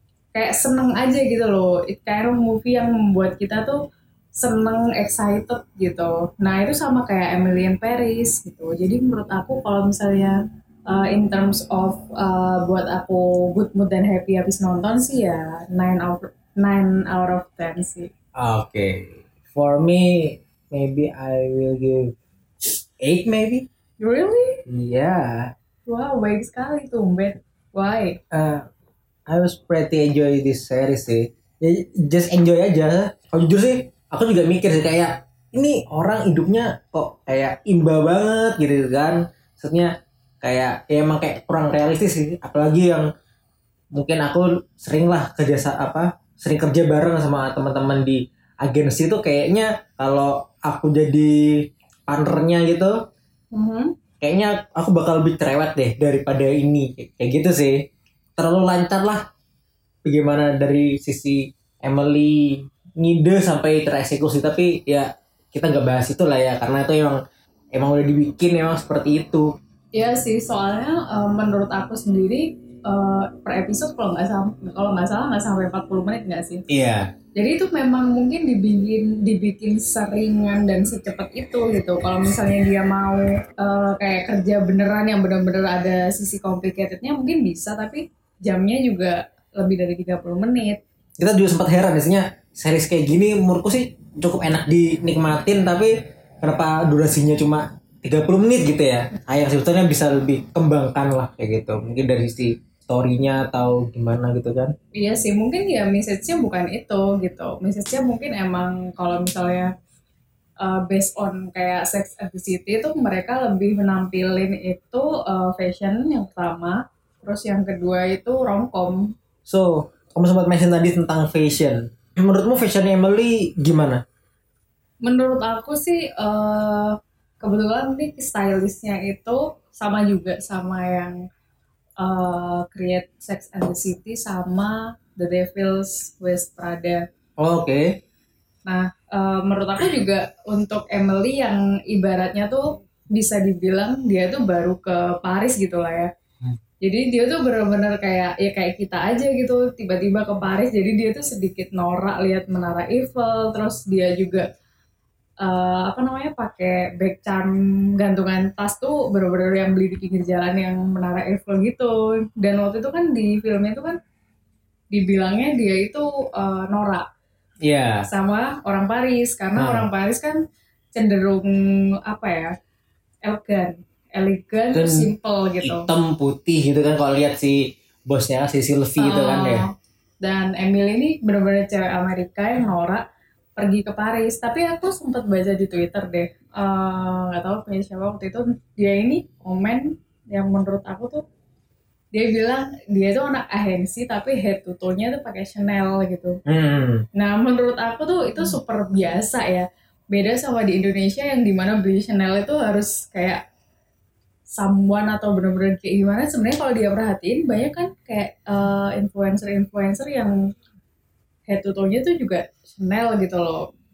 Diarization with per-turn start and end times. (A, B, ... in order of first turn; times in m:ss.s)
0:00.3-0:03.8 A
0:04.4-0:10.3 A
0:10.9-0:18.1 A
0:18.4-0:23.7 B
0:24.0-0:24.6 A
0:24.7-0:25.5 B
0:25.9-0:28.2 A
0:28.3-0:28.6 B
0:29.3-0:43.1 B
0:43.9-0:53.0 B
0:53.5-0:53.9 A
0:54.2-0:57.8 B
0:58.4-0:59.2 B
1:00.0-1:07.2 B
1:07.7-1:09.4 B
1:10.0-1:16.6 A
1:16.7-1:17.1 B
1:17.4-1:30.8 A
1:31.2-1:44.7 B
1:45.0-1:49.7 A
1:50.6-1:59.0 A
1:59.4-2:04.0 B
2:05.0-2:11.2 A
2:12.0-2:17.0 A
2:17.4-2:17.8 B
2:18.7-2:26.1 A
2:26.8-2:34.4 A
2:35.4-2:44.0 A
2:44.9-2:47.0 A
2:47.6-2:48.0 B
2:48.1-2:50.4 A
2:49.6-2:49.9 B
2:50.9-2:52.5 A
2:53.2-2:55.9 A
2:54.7-2:55.1 B
2:55.6-2:59.6 B
2:59.0-2:59.6 A
3:00.2-3:03.0 A
3:03.6-3:11.2 A
3:12.1-3:16.4 A
3:16.4-3:17.0 B
3:17.2-3:23.4 A
3:24.6-3:30.3 A
3:31.5-3:33.7 A